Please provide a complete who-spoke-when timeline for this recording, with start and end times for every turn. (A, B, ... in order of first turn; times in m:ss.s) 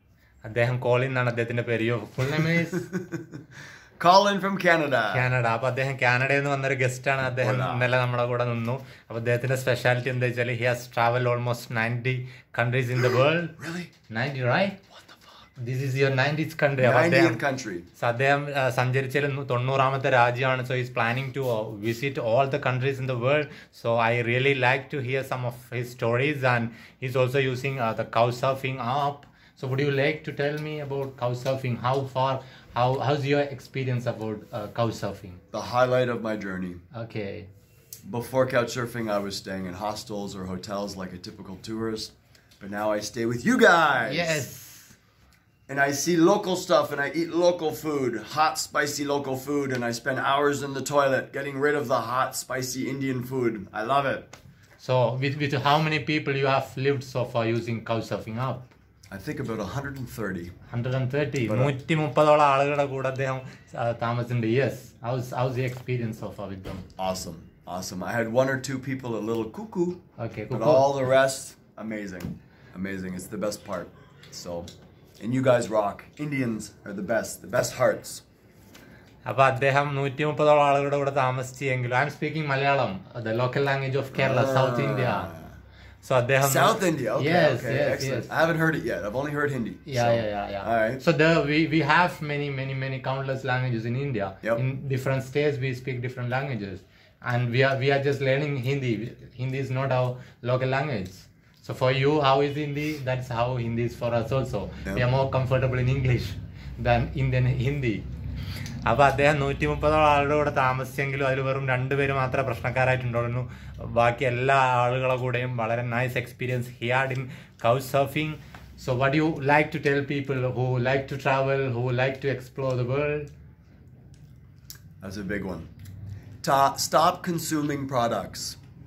0:00.4-0:02.9 A
0:02.4-0:03.4 B
0:04.0-0:05.3 B
0:05.1-0:13.6 A
0:07.4-0:07.9 B
0:13.6-0:13.9 B
0:14.1-0:14.8 A
0:15.6-0:17.4 A
0:16.8-0:17.9 B
0:18.0-0:35.4 A
0:35.5-0:36.8 B
0:36.9-0:37.5 A
0:38.0-0:44.4 B
0:44.1-0:45.0 A
0:45.7-0:54.3 B
0:54.8-0:58.6 A
0:59.1-1:00.5 B
1:00.7-1:06.9 A
1:01.5-1:01.7 B
1:07.0-1:10.0 B
1:10.2-1:10.9 A
1:10.5-1:14.7 B
1:15.2-1:18.2 B
1:19.3-1:25.3 A
1:24.1-1:25.6 B
1:26.0-1:28.3 A
1:26.4-1:31.0 B
1:29.9-1:48.0 A
1:48.9-2:03.3 A
2:05.0-2:05.7 B
2:06.4-2:08.6 B